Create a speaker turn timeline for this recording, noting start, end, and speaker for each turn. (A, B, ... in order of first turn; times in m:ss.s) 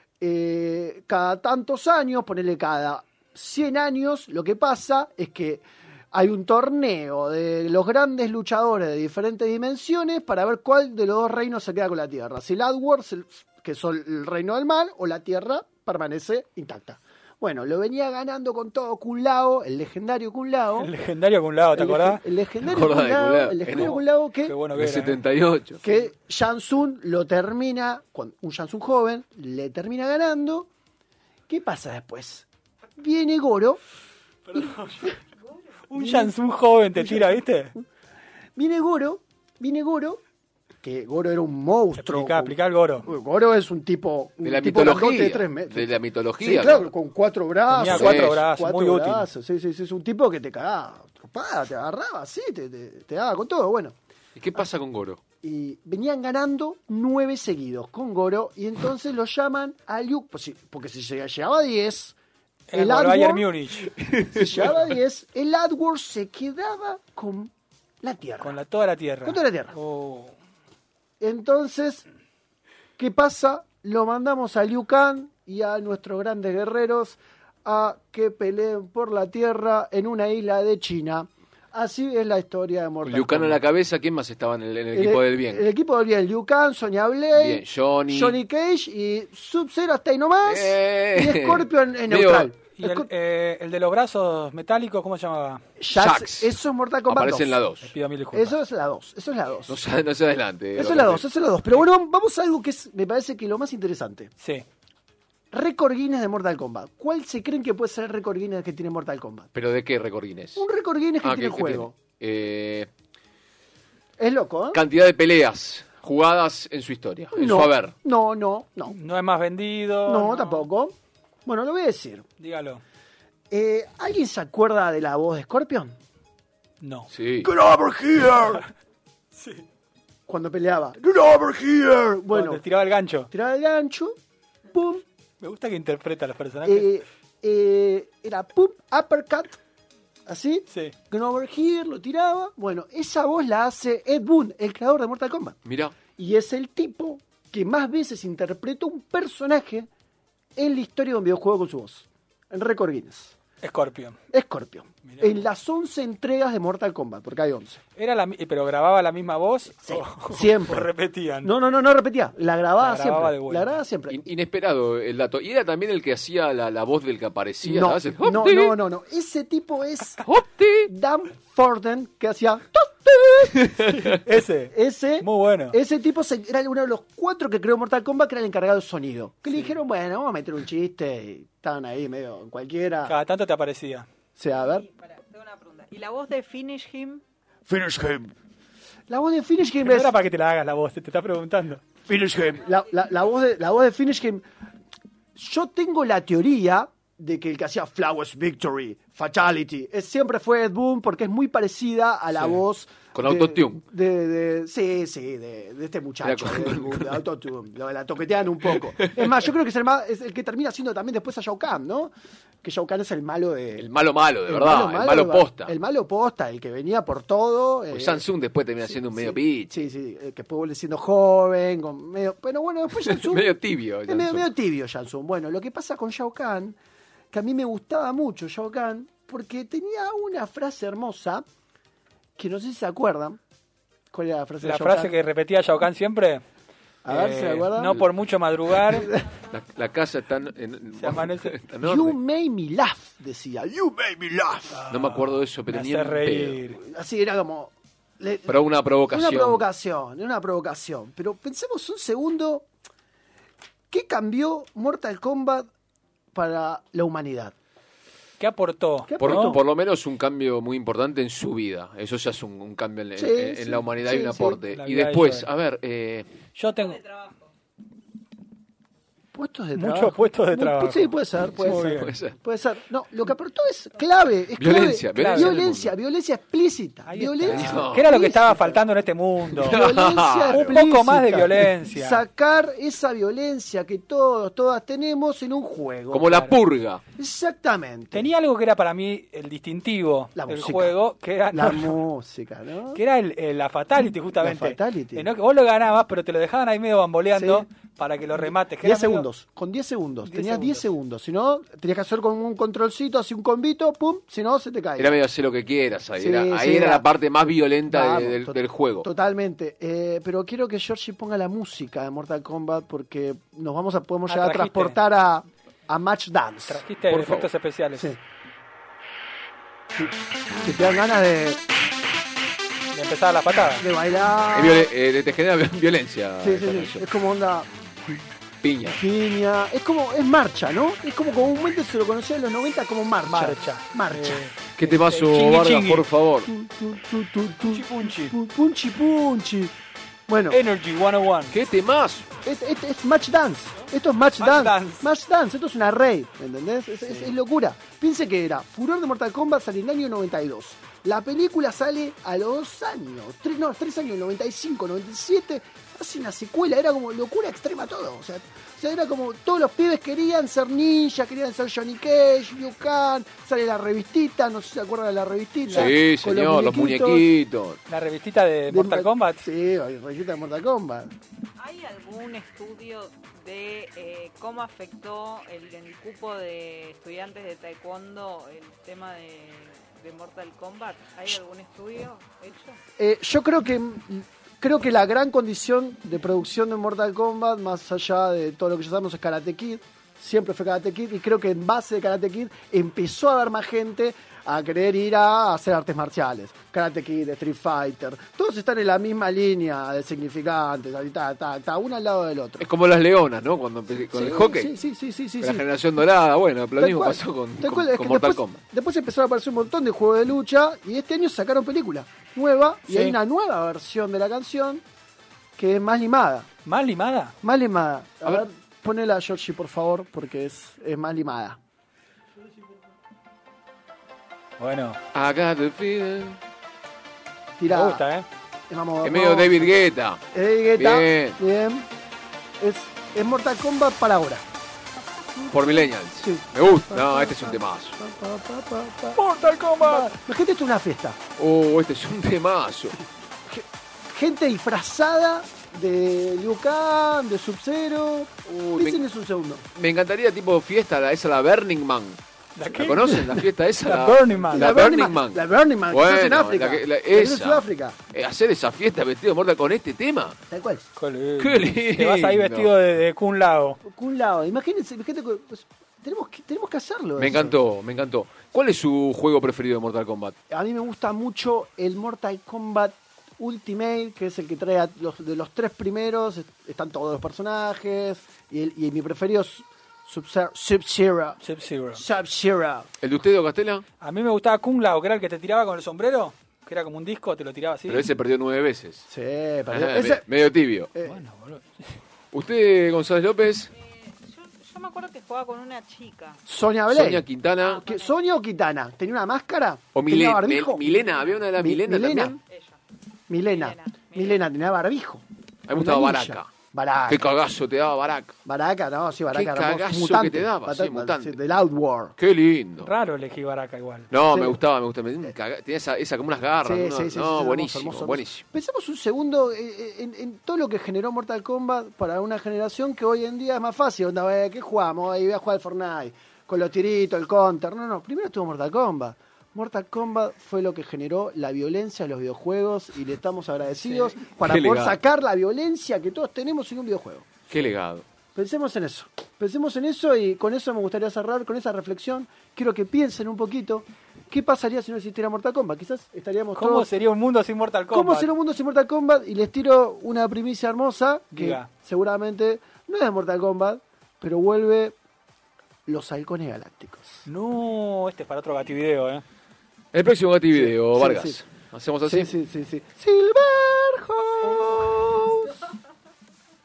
0:00.2-0:20.9 A
0:20.8-0:22.2 B
0:21.8-0:24.6 A
0:22.6-0:24.0 C
0:23.8-0:25.2 B
0:24.8-0:25.8 C
0:25.8-0:30.7 A
0:31.5-0:32.5 A
0:33.0-0:33.8 A
0:34.5-0:35.1 B
0:35.9-0:37.8 B
0:35.9-0:36.4 A
0:37.0-0:37.4 A
0:38.6-0:40.2 A
0:40.8-0:54.0 A
0:42.0-0:43.1 B
0:44.4-0:46.9 C
0:47.7-0:49.3 B
0:47.8-0:48.4 C
0:54.4-0:55.2 C
0:55.4-1:02.2 A
1:02.7-1:03.9 B
1:02.7-1:03.6 A
1:04.0-1:04.6 C
1:04.3-1:07.5 A
1:08.0-1:08.6 A
1:08.4-1:10.3 B
1:09.2-1:09.8 A
1:11.2-1:12.0 A
1:13.0-1:23.6 A
1:23.0-1:25.6 C
1:24.9-1:33.1 A
1:27.3-1:28.4 C
1:30.4-1:32.5 C
1:32.7-1:35.6 B
1:35.8-1:37.6 A
1:35.9-1:36.6 C
1:37.1-1:37.9 C
1:37.8-1:38.6 B
1:38.3-1:39.8 A
1:39.7-1:41.2 C
1:40.8-1:44.3 A
1:44.4-1:44.6 B
1:45.5-1:49.5 A
1:49.5-1:50.6 C
1:50.6-1:52.0 A
1:51.2-1:52.9 C
1:54.2-1:54.8 A
1:54.7-1:57.9 C
1:57.3-1:59.0 A
1:58.9-2:00.7 B
2:00.1-2:00.9 A
2:01.5-2:02.2 A
2:02.4-2:02.8 B
2:03.5-2:06.0 A
2:06.8-2:07.1 B
2:07.1-2:07.5 C
2:07.4-2:08.7 A
2:09.4-2:09.6 B
2:10.3-2:12.6 A
2:12.3-2:13.3 B
2:13.3-2:14.2 A
2:14.7-2:15.0 A
2:15.4-2:16.9 B
2:16.6-2:19.6 A
2:20.3-2:25.6 A
2:20.7-2:20.9 B
2:25.6-2:26.0 C
2:26.2-2:29.9 A
2:30.6-2:33.3 A
2:33.6-2:34.2 B
2:34.3-2:37.8 A
2:35.0-2:35.4 B
2:38.0-2:41.5 B
2:39.8-2:40.9 A
2:41.4-2:44.3 A
2:42.8-2:43.8 B
2:44.1-2:48.8 C
2:47.6-2:50.2 A
2:50.2-2:50.9 C
2:50.9-2:53.8 A
2:53.6-2:54.0 C
2:53.8-2:55.8 B
2:54.7-3:03.2 A
3:03.1-3:04.1 B
3:04.4-3:04.9 A
3:04.8-3:07.2 D
3:07.7-3:08.3 A
3:09.1-3:10.1 A
3:09.8-3:11.8 B
3:12.1-3:14.4 A
3:15.4-3:32.1 A
3:23.1-3:23.8 C
3:26.2-3:27.2 C
3:28.8-3:29.3 C
3:32.6-3:33.9 A
3:33.8-3:35.7 C
3:34.5-3:38.2 A
3:37.9-3:39.9 C
3:38.9-3:43.5 A
3:43.0-3:44.5 C
3:44.1-3:46.8 A
3:47.3-3:51.4 A
3:52.4-3:53.4 A
3:54.1-3:55.1 A
3:54.6-3:56.4 B
3:57.0-3:58.1 A
3:57.1-3:59.1 B
3:58.9-3:59.2 A
3:59.5-4:02.2 C
4:01.0-4:01.6 B
4:01.8-4:04.8 A
4:04.7-4:06.8 B
4:04.9-4:06.6 C
4:06.7-4:12.7 A
4:08.5-4:09.6 C
4:13.9-4:15.7 A
4:16.3-4:17.6 A
4:18.4-4:19.6 B
4:19.1-4:19.6 A
4:19.2-4:26.3 C
4:23.2-4:24.6 A
4:24.7-4:25.5 B
4:26.5-4:27.2 B
4:29.3-4:38.8 A
4:29.8-4:32.2 B
4:31.5-4:32.4 C
4:34.6-4:35.9 C
4:35.2-4:35.6 B
4:37.1-4:39.8 B
4:37.5-4:38.1 C
4:39.6-4:40.8 C
4:39.6-4:46.6 A
4:40.5-4:42.2 B
4:46.1-4:47.0 C
4:47.2-4:48.3 A
4:48.1-4:52.0 B
4:50.4-4:51.0 A
4:51.5-4:53.0 A
4:52.9-4:59.3 B
4:54.4-4:55.3 A
4:57.3-4:57.7 A
4:58.4-5:05.2 A
5:00.3-5:00.9 B
5:05.0-5:09.1 C
5:06.2-5:07.1 A
5:07.9-5:16.8 A
5:14.3-5:15.0 B
5:16.7-5:18.2 B
5:17.1-5:17.5 C
5:20.0-5:21.6 A
5:22.9-5:23.9 B
5:23.8-5:24.9 A
5:24.5-5:27.1 C
5:26.4-5:28.2 A
5:28.6-5:29.0 C
5:29.0-5:34.5 A
5:33.3-5:36.1 B
5:34.8-5:36.5 C
5:36.5-5:39.7 A
5:37.6-5:38.4 B
5:40.3-5:40.6 A
5:40.5-5:41.6 B
5:41.5-5:42.3 C
5:42.4-6:07.3 A
5:44.4-5:45.1 B
6:05.7-6:07.8 C
6:07.9-6:09.4 B
6:08.7-6:11.1 A
6:11.6-6:22.8 D
6:23.0-6:42.6 A
6:42.6-6:44.7 C
6:44.1-6:45.7 A
6:45.4-6:48.6 C
6:46.8-6:54.8 A
6:55.6-6:56.5 A
6:56.6-6:57.4 B
6:57.4-7:01.6 A
7:04.6-7:05.0 B
7:05.1-7:06.4 C
7:07.6-7:08.1 A
7:07.7-7:08.3 B
7:08.7-7:09.7 A
7:09.0-7:10.2 C
7:10.3-7:11.9 A
7:10.8-7:11.4 C
7:12.6-7:14.4 A
7:15.5-7:18.0 C
7:16.2-7:19.2 A
7:19.2-7:20.1 B
7:19.8-7:21.2 A
7:21.4-7:23.0 C
7:23.5-7:29.6 A
7:28.5-7:29.0 C
7:29.8-7:40.4 C
7:32.6-7:33.3 B
7:33.8-7:34.7 B
7:34.5-7:38.0 A
7:40.5-7:40.8 A
7:41.0-7:43.8 B
7:41.4-7:42.7 C
7:43.8-7:47.6 A
7:47.2-7:50.4 C
7:50.5-8:01.4 A
8:01.4-8:02.0 B
8:01.9-8:02.9 A
8:03.0-8:03.8 C
8:04.0-8:08.1 B
8:07.9-8:09.0 C
8:09.1-8:10.2 A
8:09.7-8:10.9 C
8:11.0-8:11.2 A
8:11.0-8:12.0 B
8:12.3-8:13.7 C
8:13.8-8:16.4 D
8:16.5-8:20.9 A
8:16.9-8:17.8 C
8:17.6-8:18.2 D
8:19.9-8:22.4 C
8:21.5-8:22.4 A
8:22.4-8:22.8 D
8:23.3-8:27.3 A
8:23.4-8:24.4 D
8:25.7-8:26.5 C
8:27.1-8:28.4 C
8:28.5-8:32.2 A
8:29.3-8:31.4 C
8:32.2-8:32.9 C
8:32.8-8:34.1 B
8:34.1-8:38.4 C
8:34.3-8:34.6 A
8:36.6-8:57.4 A
8:53.9-8:54.2 B
8:54.4-8:55.0 C
8:57.5-8:58.0 C
8:58.4-9:06.9 A
9:06.6-9:08.3 B
9:07.9-9:15.0 A
9:11.3-9:11.7 B
9:15.9-9:17.3 A
9:17.3-9:19.2 B
9:19.9-9:22.3 C
9:20.5-9:21.4 A
9:22.1-9:25.6 A
9:24.5-9:24.9 B